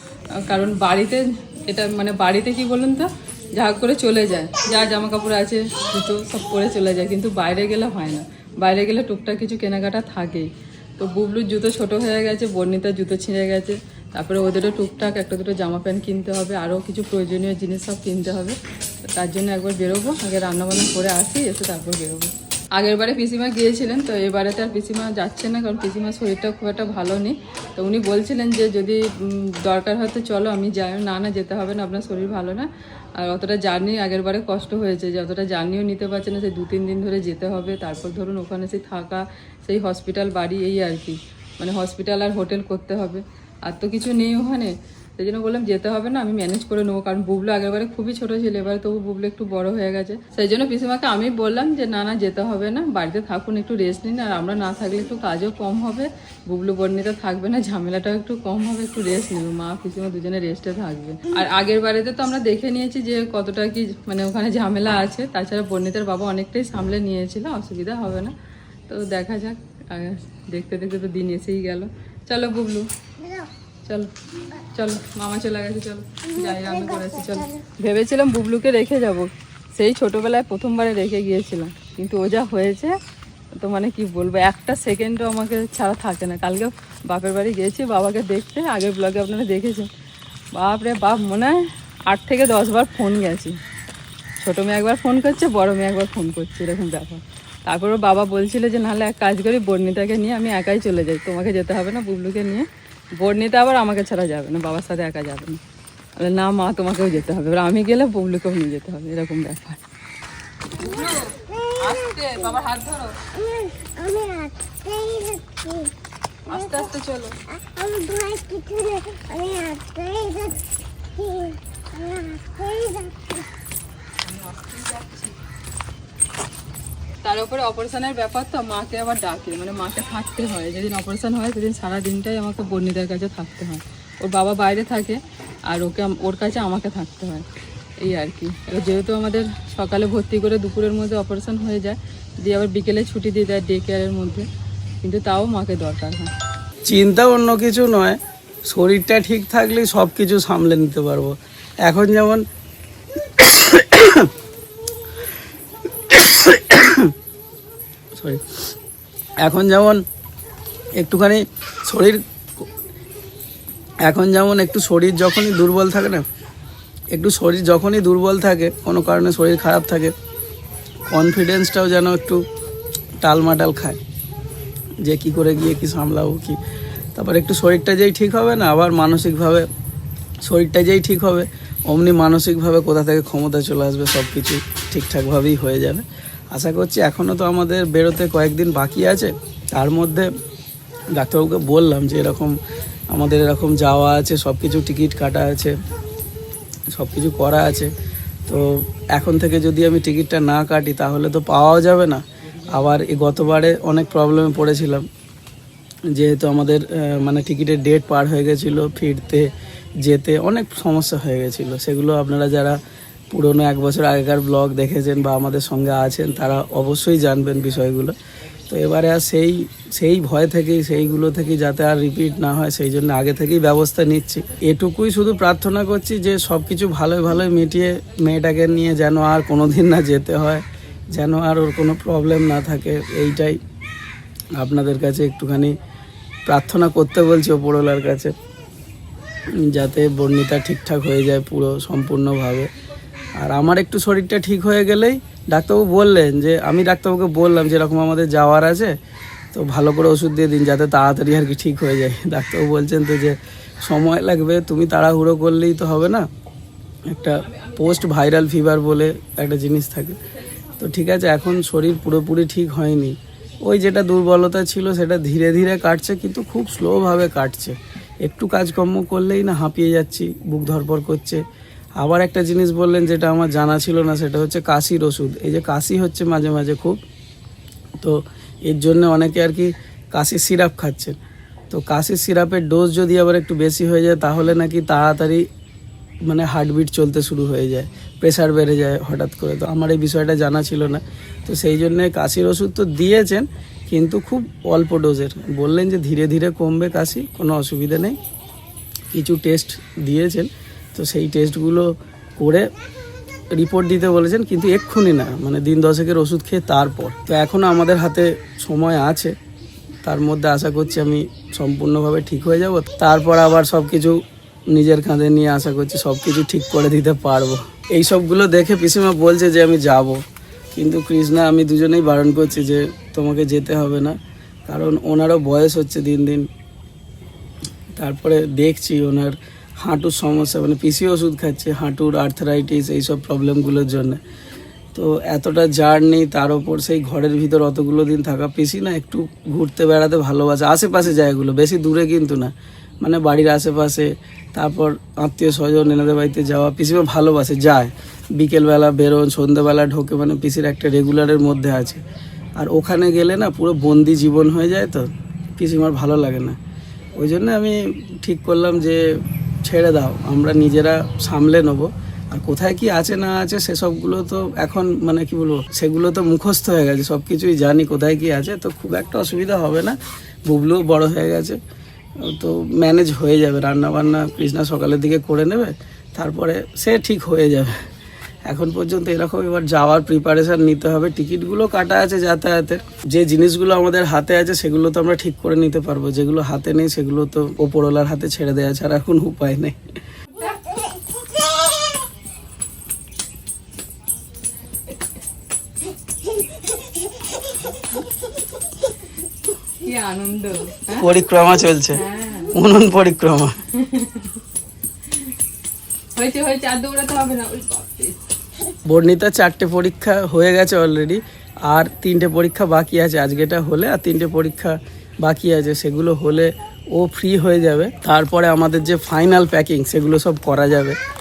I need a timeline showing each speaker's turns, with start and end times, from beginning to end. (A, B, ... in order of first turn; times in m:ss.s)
0:00.3-1:08.3 A
1:08.9-1:12.9 A
1:13.2-1:13.5 B
1:14.7-1:23.0 A
1:16.3-1:17.6 B
1:23.5-1:29.9 A
1:30.5-1:33.6 A
1:34.4-1:42.6 A
1:43.2-1:45.6 A
1:46.2-1:49.8 A
1:50.8-1:53.2 A
1:50.8-1:52.5 B
1:53.4-1:55.9 B
1:56.5-1:57.4 A
1:56.5-1:56.8 B
1:57.7-2:00.6 B
2:01.2-2:03.4 B
2:04.2-2:05.4 A
2:07.2-2:17.4 A
2:18.0-2:24.5 A
2:25.0-2:26.3 A
2:26.8-2:32.4 C
2:33.3-2:34.3 C
2:36.1-2:37.1 C
2:38.2-2:38.4 C
2:39.4-2:40.0 C
2:41.0-2:42.6 C
2:44.0-2:46.2 C
2:47.1-2:50.1 C
2:51.1-2:52.4 C
2:53.2-2:54.0 C
2:55.0-2:56.6 C
2:57.1-2:59.7 C
3:00.4-3:10.3 C
3:11.1-3:12.6 C
3:13.1-3:15.7 C
3:16.9-3:17.9 C
3:18.5-3:25.1 C
3:26.1-3:38.1 C
3:38.7-3:53.6 C
3:54.6-3:55.7 C
3:56.5-3:58.3 C
3:59.6-4:02.7 C
4:03.4-4:08.9 C
4:09.5-4:16.2 C
4:17.1-4:20.2 C
4:17.4-4:17.9 A
4:20.8-4:31.4 C
4:32.0-4:37.0 C
4:38.0-4:41.2 C
4:41.7-4:45.4 C
4:46.3-4:58.2 C
4:59.1-5:02.7 C
5:03.5-5:09.3 C
5:10.0-5:20.2 C
5:20.7-5:24.2 C
5:24.7-5:26.5 C
5:28.0-5:34.2 C
5:34.9-5:52.0 C
5:52.6-5:56.6 C
5:57.2-5:59.0 C
5:59.6-6:11.6 C
6:12.2-6:17.8 C
6:18.4-6:29.8 C
6:39.8-6:41.1 A
6:41.0-6:42.0 C
6:41.9-6:42.5 A
6:42.5-6:43.6 C
6:43.7-6:44.3 A
6:46.1-6:48.2 A
6:48.8-7:01.0 C